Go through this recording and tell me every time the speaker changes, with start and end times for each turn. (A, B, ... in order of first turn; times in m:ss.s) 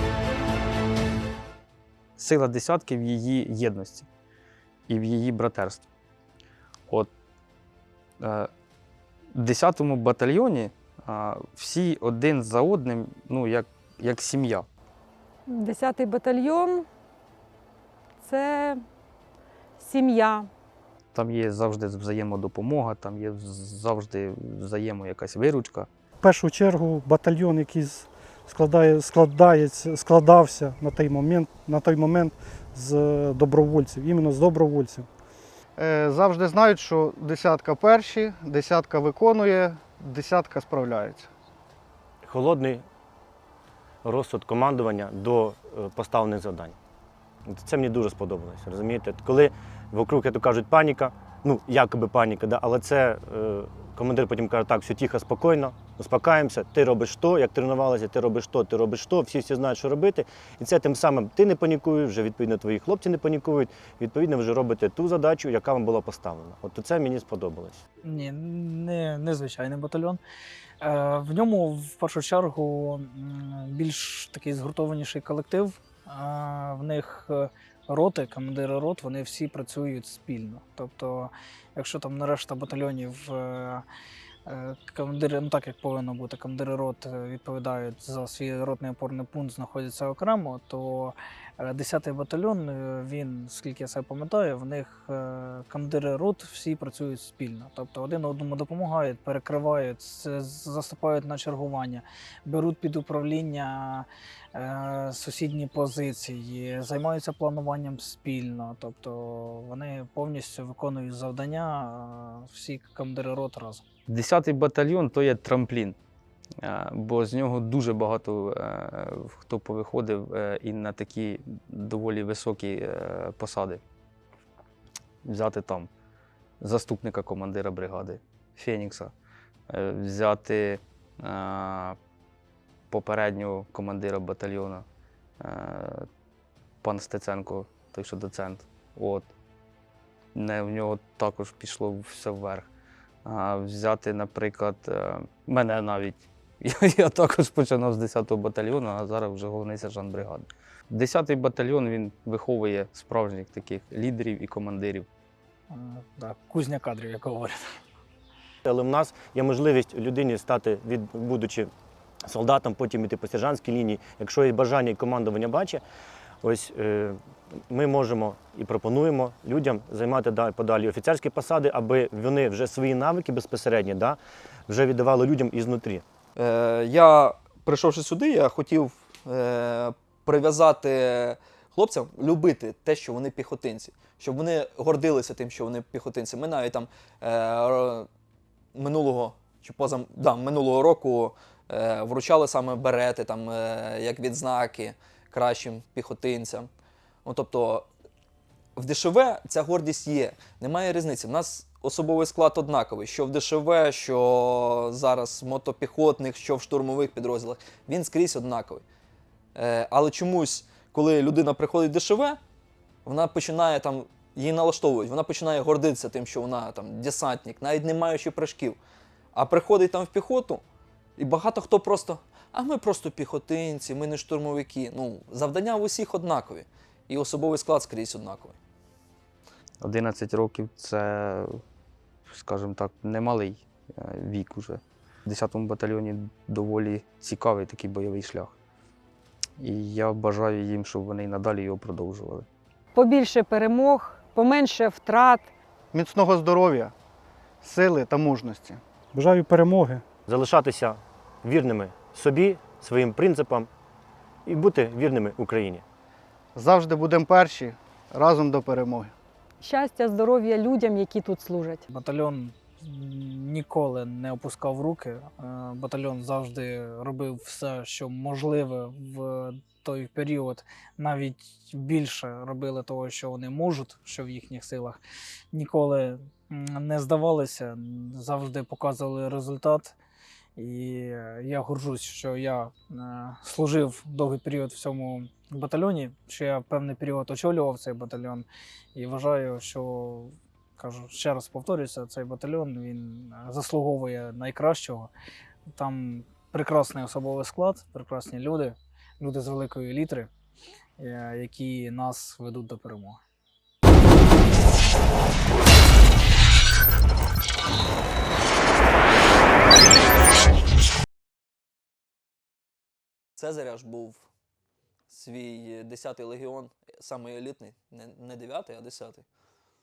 0:02.2-0:04.1 A
0:04.9-0:05.9 A
0:08.2-0:08.5 A
0:09.3-0:14.7 A
0:15.5-0:16.9 B
0:18.2-0:18.8 B
0:19.8-0:20.5 B
0:21.1-0:25.9 A
0:26.2-0:35.1 C
0:35.8-0:41.2 D
0:42.2-0:42.8 E
0:44.0-0:46.8 E
0:47.5-1:07.8 E
1:08.0-1:10.2 F
1:10.8-1:23.8 F
1:24.5-1:53.8 F
1:54.1-1:56.0 A
1:56.6-2:03.8 A
2:05.2-2:05.9 A
2:06.6-2:09.1 A
2:09.7-2:12.0 A
2:12.9-2:14.8 A
2:15.4-2:16.1 A
2:16.8-2:19.3 A
2:20.3-2:22.7 A
2:23.2-2:35.1 A
2:35.7-2:37.8 F
2:38.6-2:41.7 E
2:42.2-2:45.8 E
2:46.4-2:47.2 E
2:47.7-2:56.0 E
2:56.4-3:08.1 G
3:08.7-3:16.7 G
3:17.2-3:17.9 G
3:18.8-3:28.8 G
3:29.5-3:32.4 G
3:33.0-3:38.8 G
3:39.3-3:40.6 G
3:41.2-3:48.6 G
3:49.8-3:51.6 A
3:52.3-3:58.5 A
3:59.6-4:02.4 A
4:02.9-4:05.5 B
4:05.9-4:06.9 D
4:07.6-4:08.8 D
4:09.1-4:10.0 C
4:10.3-4:13.7 E
4:14.4-4:15.8 E
4:16.6-4:19.1 D
4:19.6-4:21.8 B
4:21.9-4:35.0 F
4:35.5-4:40.0 F
4:40.6-4:55.1 F
4:55.8-5:00.3 F
5:01.0-5:03.2 F
5:13.4-5:14.2 G
5:15.1-5:19.2 G